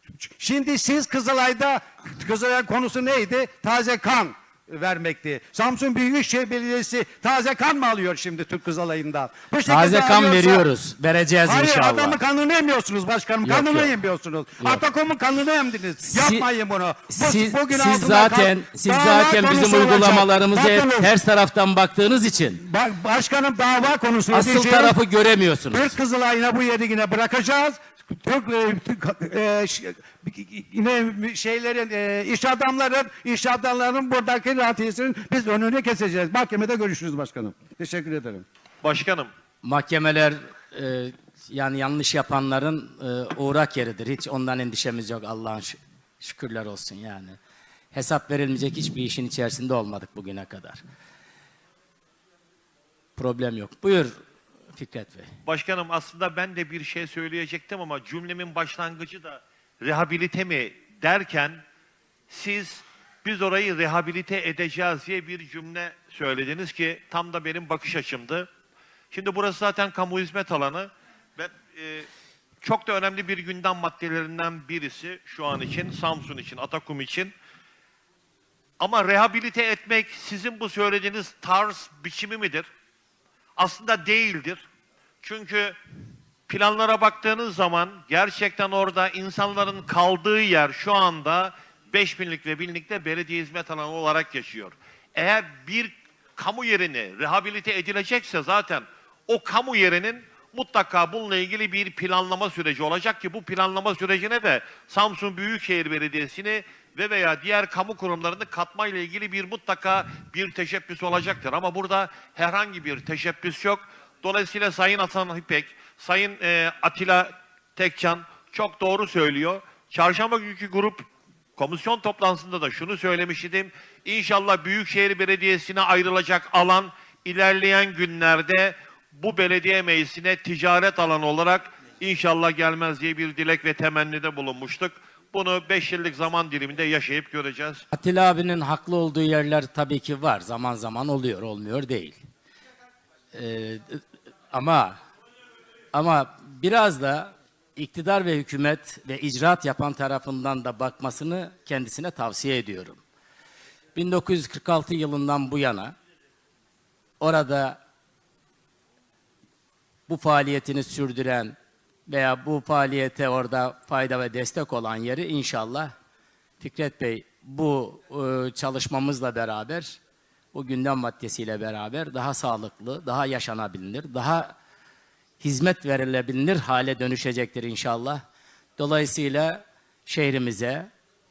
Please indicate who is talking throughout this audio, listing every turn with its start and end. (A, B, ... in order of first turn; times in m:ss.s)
0:00.2-0:10.7 A
0:09.6-0:12.2 B
0:11.4-0:21.1 A
0:13.4-0:14.0 B
0:16.0-0:16.5 B
0:17.1-0:22.6 B
0:22.6-0:25.0 A
0:24.3-0:25.9 B
0:25.7-0:38.4 A
0:38.8-0:39.3 C
0:39.6-0:47.4 B
0:47.9-0:50.8 B
0:53.1-0:54.1 B
0:54.7-0:55.3 B
0:55.4-1:01.6 C
1:02.3-1:08.5 C
1:09.1-1:12.1 C
1:12.6-1:17.3 C
1:18.8-1:22.7 C
1:23.6-1:24.6 C
1:25.2-1:25.8 C
1:26.5-2:01.0 C
2:01.6-2:17.8 C
2:17.9-2:22.2 B
2:23.3-2:25.0 B
2:25.9-2:33.0 B
2:33.9-2:35.9 B
2:37.2-2:37.8 B
2:40.1-2:41.5 B
2:42.1-2:45.9 B
2:46.6-2:50.0 B
2:50.5-2:54.5 B
2:55.4-2:58.2 B
2:58.8-3:00.9 B